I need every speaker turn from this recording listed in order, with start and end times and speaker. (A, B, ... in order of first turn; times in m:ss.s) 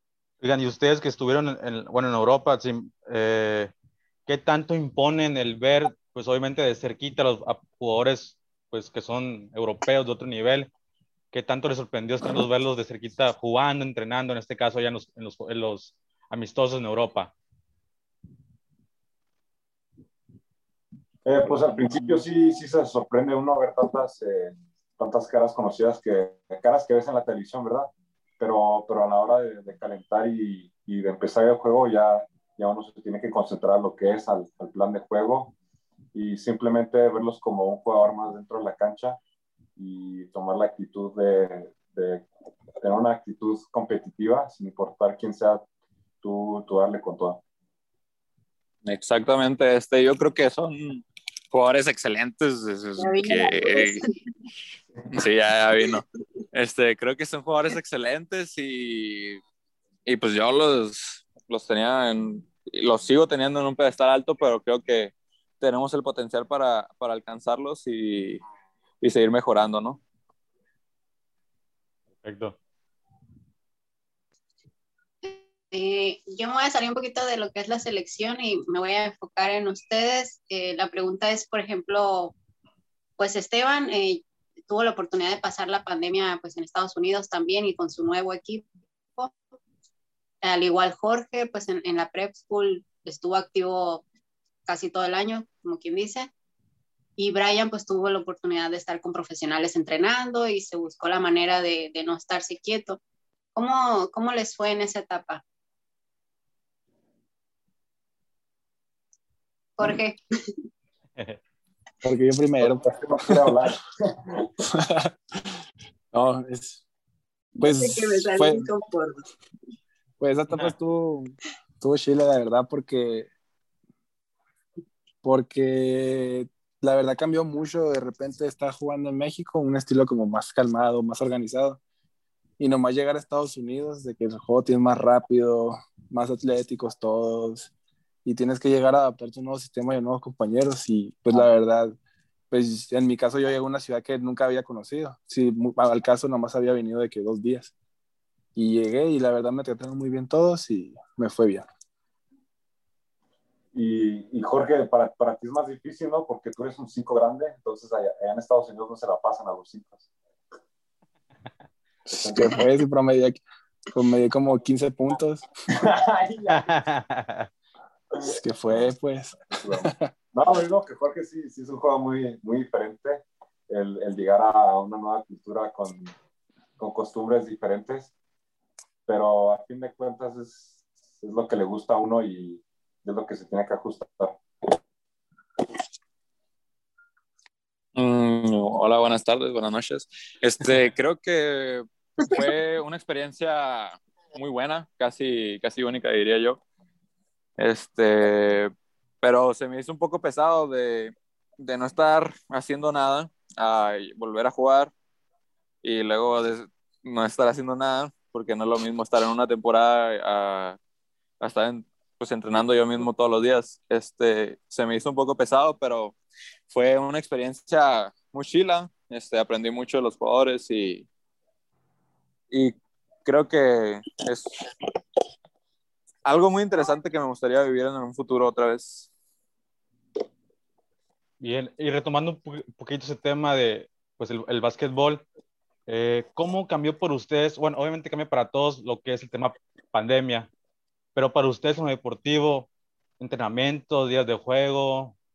0:00.4-0:03.7 A
0:04.3-0:10.7 A
0:11.3-0:17.3 A
0:21.2-0:35.6 B
0:36.1-0:39.2 B
0:39.8-0:42.3 B
0:42.8-0:45.6 B
0:46.2-0:47.4 B
0:48.8-0:54.0 C
0:53.0-0:54.0 D
0:55.1-0:59.4 C
1:00.1-1:08.4 C
1:09.0-1:10.0 C
1:12.2-1:12.6 A
1:15.2-1:22.3 D
1:23.2-1:28.6 D
1:30.4-1:34.0 D
1:34.7-1:36.3 D
1:37.2-1:43.0 D
1:43.6-1:45.4 D
1:49.8-1:50.2 D
1:52.0-1:53.6 E
1:52.6-1:54.5 B
1:54.6-1:55.6 E
1:56.1-1:56.8 E
1:57.6-1:58.6 E
1:57.6-1:59.3 D
2:00.2-2:03.3 E
2:05.2-2:11.8 E
2:12.6-2:17.7 E
2:18.2-2:21.9 E
2:22.5-2:27.7 E
2:28.6-2:31.6 E
2:33.7-2:40.1 B
2:42.1-2:43.4 E
2:42.1-2:42.7 B
2:43.9-2:45.4 E
2:45.7-2:46.7 B
2:46.5-2:47.5 A
2:48.1-2:48.8 B
2:48.2-2:50.1 E
2:49.5-2:56.1 B
2:56.8-2:58.1 B
2:59.1-3:04.4 B
3:08.0-3:16.6 C
3:17.6-3:18.7 C
3:19.2-3:24.9 C
3:25.8-3:30.8 C
3:31.4-3:36.2 C
3:36.7-3:41.1 C
3:42.5-3:44.6 C
3:46.2-3:49.1 C
3:51.4-3:55.2 A
3:55.9-4:00.5 A
4:01.1-4:05.2 A